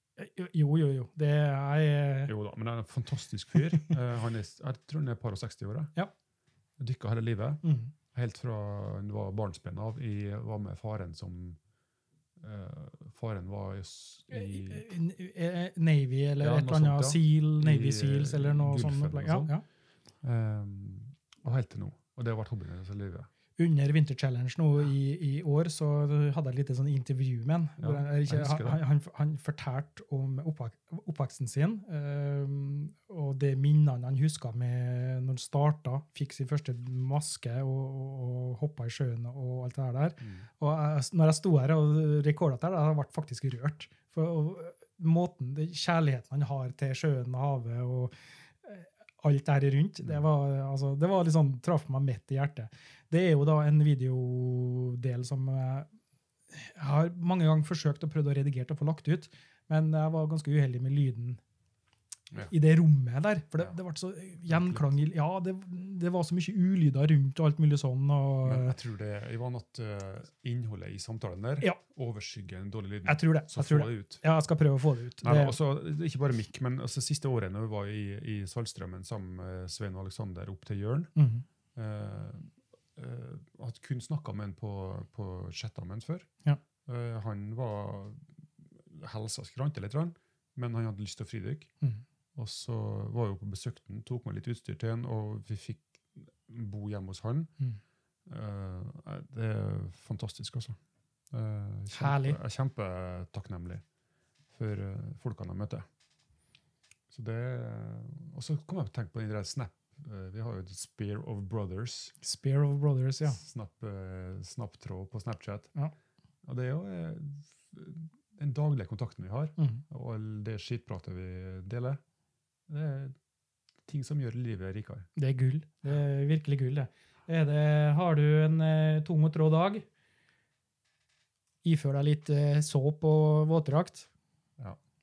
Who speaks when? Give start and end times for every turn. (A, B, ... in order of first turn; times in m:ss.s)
0:00.2-0:02.3 A
0:02.2-0:05.9 B
0:06.8-0:07.6 B
0:07.6-0:07.9 A
0:08.1-0:11.6 B
0:12.4-0:14.9 B
0:14.3-0:19.6 A
0:16.4-0:19.5 B
0:20.2-0:23.3 B
0:23.6-0:55.9 A
0:27.8-0:28.8 B
0:40.2-0:40.4 B
0:56.5-1:01.4 A
1:02.5-1:08.7 A
1:04.5-1:04.9 B
1:08.4-1:14.2 B
1:13.0-1:15.5 A
1:15.2-1:21.1 B
1:21.2-1:21.4 A
1:21.8-1:26.3 B
1:26.9-1:31.7 B
1:32.3-1:37.5 B
1:38.3-1:40.8 B
1:41.3-1:43.8 B
1:41.9-1:42.4 A
1:44.5-1:45.8 B
1:47.1-1:52.2 B
1:52.2-1:53.4 A
1:53.2-1:55.7 B
1:56.4-2:02.0 B
1:59.6-1:59.8 A
2:02.7-2:03.1 B
2:03.9-2:05.1 B
2:05.2-2:09.9 A
2:11.6-2:14.1 A